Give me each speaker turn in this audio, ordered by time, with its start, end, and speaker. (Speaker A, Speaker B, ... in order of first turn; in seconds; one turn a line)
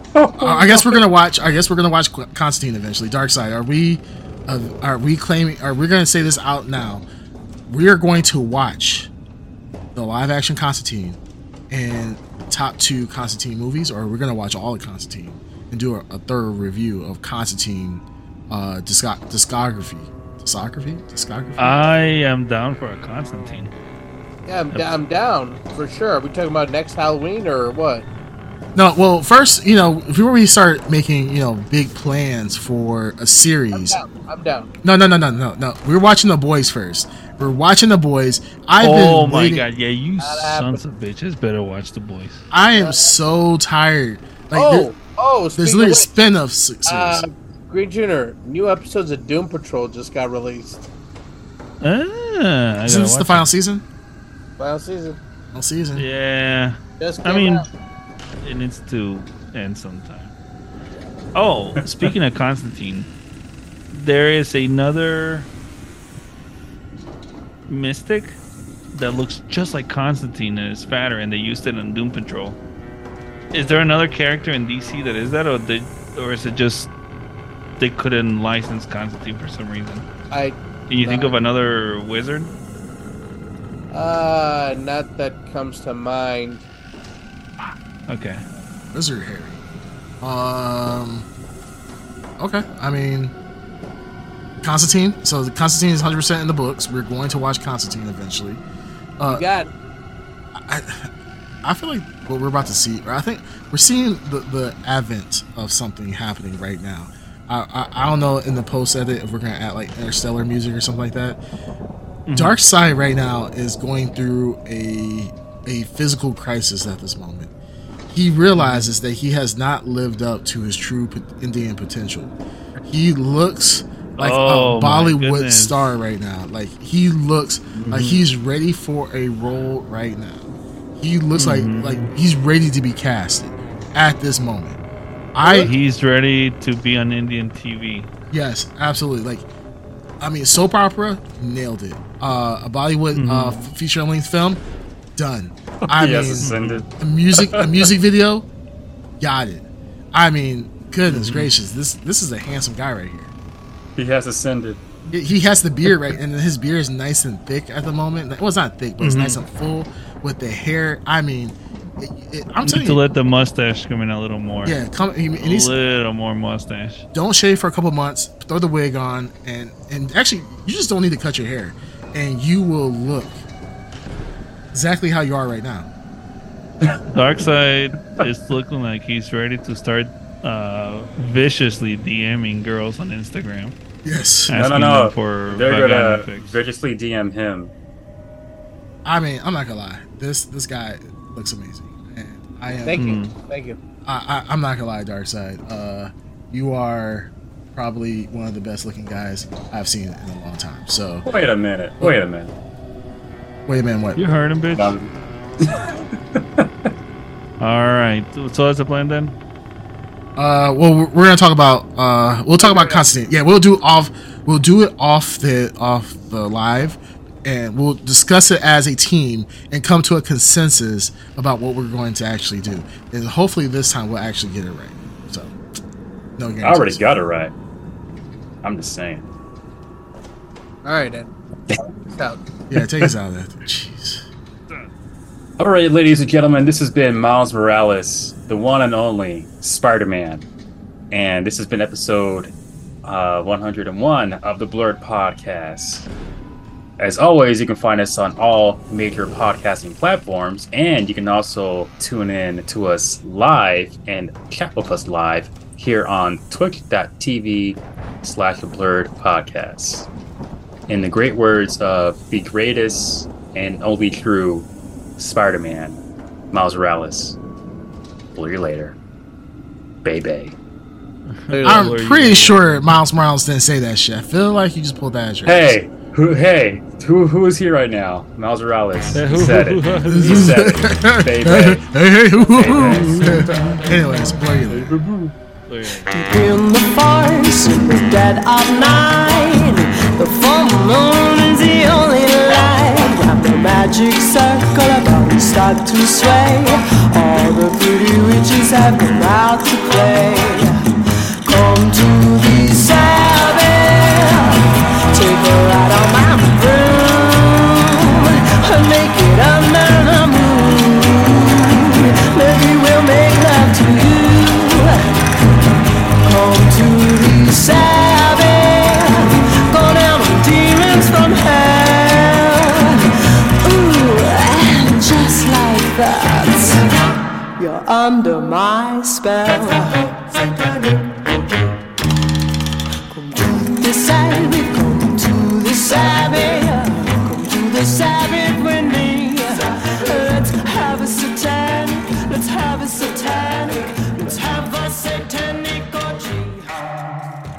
Speaker A: 0.1-1.0
Speaker B: 0.4-7.1
Speaker B: 7.7-9.1
Speaker B: 9.9-11.2
Speaker B: 11.7-21.9
Speaker C: 21.6-23.7
Speaker D: 24.5-28.1
Speaker C: 24.7-25.0
Speaker B: 28.8-34.0
Speaker D: 33.7-34.7
Speaker B: 34.8-39.7
Speaker C: 38.8-42.4
Speaker D: 40.2-40.8
Speaker B: 42.5-44.9
Speaker D: 42.7-43.2
Speaker D: 44.5-46.1
Speaker B: 45.6-47.2
Speaker D: 46.9-50.9
Speaker C: 51.8-53.5
Speaker B: 52.9-53.8
Speaker D: 54.6-55.2
Speaker B: 55.5-56.1
Speaker C: 56.0-57.6
Speaker D: 57.0-57.7
Speaker C: 58.4-60.3
Speaker C: 61.4-63.1
Speaker A: 61.8-62.1
Speaker C: 63.9-65.5
Speaker C: 67.7-68.4
Speaker C: 68.9-72.6
Speaker C: 73.5-76.9
Speaker C: 77.8-80.1
Speaker D: 80.3-81.4
Speaker C: 80.9-82.5
Speaker D: 83.9-86.7
Speaker C: 87.6-88.4
Speaker B: 88.9-89.6
Speaker B: 90.2-91.3
Speaker B: 92.4-93.3
Speaker B: 94.6-98.6
Speaker D: 99.3-99.7
Speaker B: 100.6-101.1
Speaker B: 101.6-111.4
Speaker C: 112.3-112.6
Speaker B: 112.3-117.5
Speaker B: 118.1-134.8
Speaker C: 118.6-118.9
Speaker C: 124.2-125.8
Speaker C: 127.7-128.2
Speaker C: 131.3-132.1
Speaker B: 135.3-135.8
Speaker D: 135.4-135.7
Speaker C: 135.5-138.1
Speaker B: 138.3-139.5
Speaker B: 140.2-144.6
Speaker C: 143.2-143.7
Speaker B: 145.2-148.5
Speaker A: 145.8-147.9
Speaker C: 146.4-146.8
Speaker B: 149.2-153.3
Speaker C: 151.1-151.5
Speaker A: 154.0-154.8
Speaker B: 155.1-163.0
Speaker C: 159.0-159.4
Speaker C: 162.6-164.8
Speaker B: 164.6-165.8
Speaker C: 165.4-167.1
Speaker B: 167.1-173.4
Speaker B: 174.7-175.9
Speaker A: 176.8-177.2
Speaker C: 177.1-183.8
Speaker B: 184.0-184.6
Speaker C: 184.5-186.6
Speaker A: 184.5-187.7
Speaker B: 189.1-193.2
Speaker D: 192.8-193.8
Speaker C: 193.0-193.4
Speaker B: 194.1-201.3
Speaker A: 201.2-202.5
Speaker B: 203.7-204.2
Speaker C: 204.2-204.9
Speaker A: 204.7-206.9
Speaker C: 207.6-209.4
Speaker B: 210.4-225.5
Speaker D: 212.6-213.1
Speaker B: 226.4-227.0
Speaker A: 226.6-227.5
Speaker A: 228.6-229.3
Speaker D: 230.8-231.3
Speaker D: 231.9-232.4
Speaker B: 232.7-234.2
Speaker A: 235.6-240.5
Speaker A: 241.1-246.1
Speaker A: 247.0-260.1
Speaker A: 260.9-266.0
Speaker A: 266.5-267.4
Speaker A: 268.4-269.0
Speaker A: 270.0-270.6
Speaker C: 271.3-272.8
Speaker D: 271.5-271.9
Speaker B: 271.6-275.8
Speaker A: 275.4-281.8
Speaker C: 279.1-280.6
Speaker B: 280.1-285.0
Speaker A: 282.4-283.8
Speaker C: 283.0-283.4
Speaker A: 284.7-285.4
Speaker C: 285.7-286.1
Speaker E: 286.1-300.9
Speaker E: 301.4-315.0
Speaker E: 316.2-331.8
Speaker E: 333.1-347.2